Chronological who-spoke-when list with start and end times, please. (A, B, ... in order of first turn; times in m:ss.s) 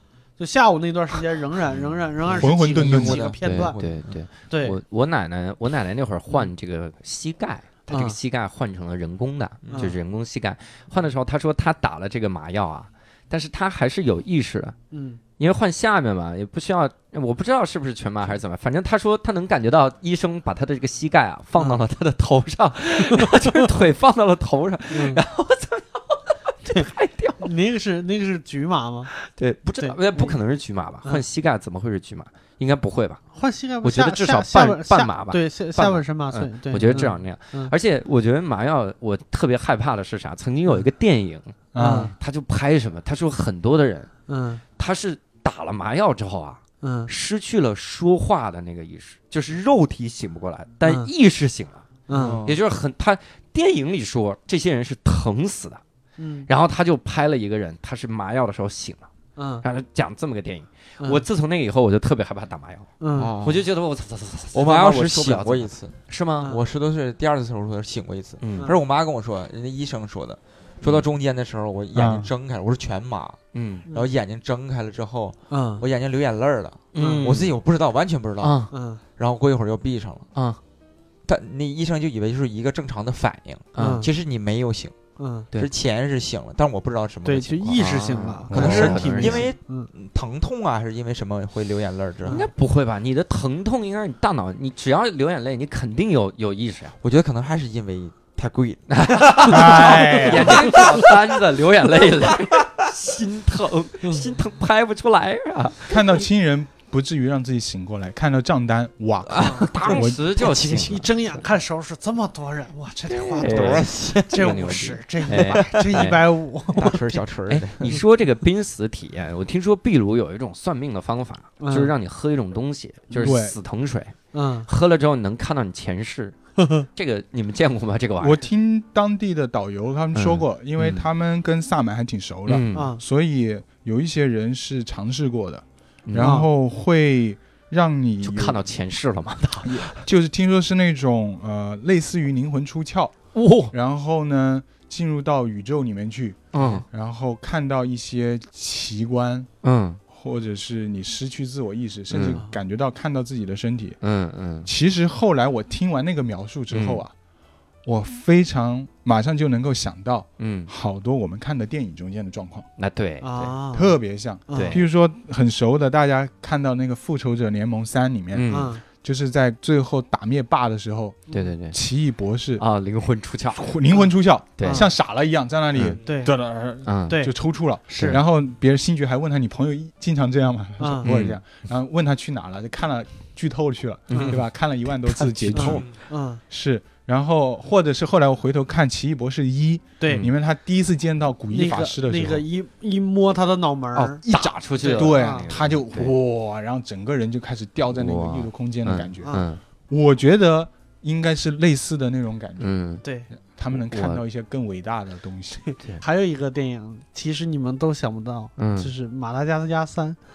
0:00.4-0:03.7 A
0:01.7-0:02.0 B
0:02.2-0:04.2 C
0:02.4-0:03.3 D
0:03.4-0:14.8 B
0:04.5-0:04.8 A
0:07.9-0:08.2 A
0:09.6-0:10.0 C
0:09.7-0:10.0 A
0:14.9-0:15.2 A
0:15.4-0:27.5 B
0:23.1-0:23.6 A
0:24.9-0:25.2 A
0:27.4-0:29.1 A
0:29.1-0:33.2 B
0:29.8-0:30.4 A
0:33.3-0:37.7 A
0:33.8-0:44.1 B
0:41.7-0:42.1 D
0:41.8-0:42.1 A
0:44.3-0:44.6 A
0:44.8-0:51.9 B
0:46.8-0:47.1 A
0:50.8-0:51.1 A
0:52.1-0:52.4 A
0:52.1-0:52.6 C
0:52.4-0:55.8 B
0:56.2-0:56.5 A
0:56.5-0:59.1 B
0:59.4-0:59.6 A
0:59.6-1:06.5 B
1:03.0-1:03.3 A
1:03.1-1:03.7 C
1:04.5-1:20.3 C
1:06.4-1:06.6 A
1:08.4-1:08.7 B
1:10.8-1:11.1 B
1:11.9-1:12.3 D
1:13.5-1:13.8 B
1:13.9-1:14.1 A
1:15.5-1:15.8 A
1:16.9-1:17.5 B
1:17.0-1:17.3 A
1:18.4-1:18.7 B
1:18.7-1:19.0 A
1:20.3-1:20.6 B
1:21.2-1:25.0 C
1:23.7-1:24.0 B
1:23.8-1:24.1 A
1:25.2-1:25.5 A
1:25.5-1:32.5 C
1:27.2-1:29.9 A
1:27.7-1:29.5 B
1:28.5-1:29.0 D
1:32.3-1:36.9 B
1:37.0-1:41.4 C
1:38.9-1:45.9 B
1:39.5-1:40.8 D
1:42.0-1:42.6 C
1:45.9-1:50.2 D
1:49.3-1:51.0 B
1:49.4-1:49.7 A
1:49.9-1:51.0 C
1:50.4-1:57.2 A
1:53.1-1:54.7 C
1:53.4-1:56.2 B
1:55.3-1:56.1 C
1:56.7-1:58.0 C
1:57.5-2:06.3 B
2:01.6-2:01.9 A
2:03.1-2:03.4 A
2:03.2-2:03.6 D
2:04.3-2:04.7 A
2:06.6-2:06.8 A
2:06.9-2:08.4 B
2:08.2-2:18.6 D
2:10.1-2:11.0 B
2:12.5-2:12.9 B
2:12.7-2:13.0 A
2:16.0-2:16.4 B
2:16.2-2:16.5 A
2:18.2-2:20.0 B
2:19.6-2:23.1 D
2:23.3-2:23.7 B
2:23.7-2:29.5 D
2:26.5-2:26.8 B
2:29.6-2:30.0 B
2:30.1-2:34.0 D
2:32.1-2:32.4 B
2:34.0-2:34.7 B
2:34.6-2:37.1 D
2:36.7-2:37.0 B
2:37.8-2:42.7 D
2:40.4-2:40.7 B
2:42.8-2:43.6 B
2:43.2-2:44.0 A
2:43.7-2:52.6 D
2:44.5-2:44.8 A
2:44.5-2:44.8 B
2:48.3-2:48.8 B
2:48.5-2:48.8 A
2:51.3-2:51.8 B
2:52.6-2:53.7 B
2:53.5-3:05.9 D
2:54.6-2:54.8 B
2:54.6-2:54.9 A
2:56.0-2:56.3 A
2:56.8-2:57.2 B
2:57.9-2:58.2 B
2:57.9-2:58.2 A
3:00.8-3:01.1 A
3:01.0-3:01.4 B
3:04.1-3:04.4 B
3:04.1-3:04.4 A
3:05.1-3:05.8 B
3:05.5-3:06.4 A
3:06.5-3:12.4 D
3:10.0-3:10.3 A
3:10.0-3:10.3 B
3:11.5-3:15.5 A
3:13.9-3:16.1 B
3:14.2-3:22.7 D
3:17.9-3:19.6 B
3:22.6-3:23.0 B
3:23.5-3:25.6 D
3:23.7-3:24.2 B
3:25.6-3:30.2 A
3:28.6-3:28.9 B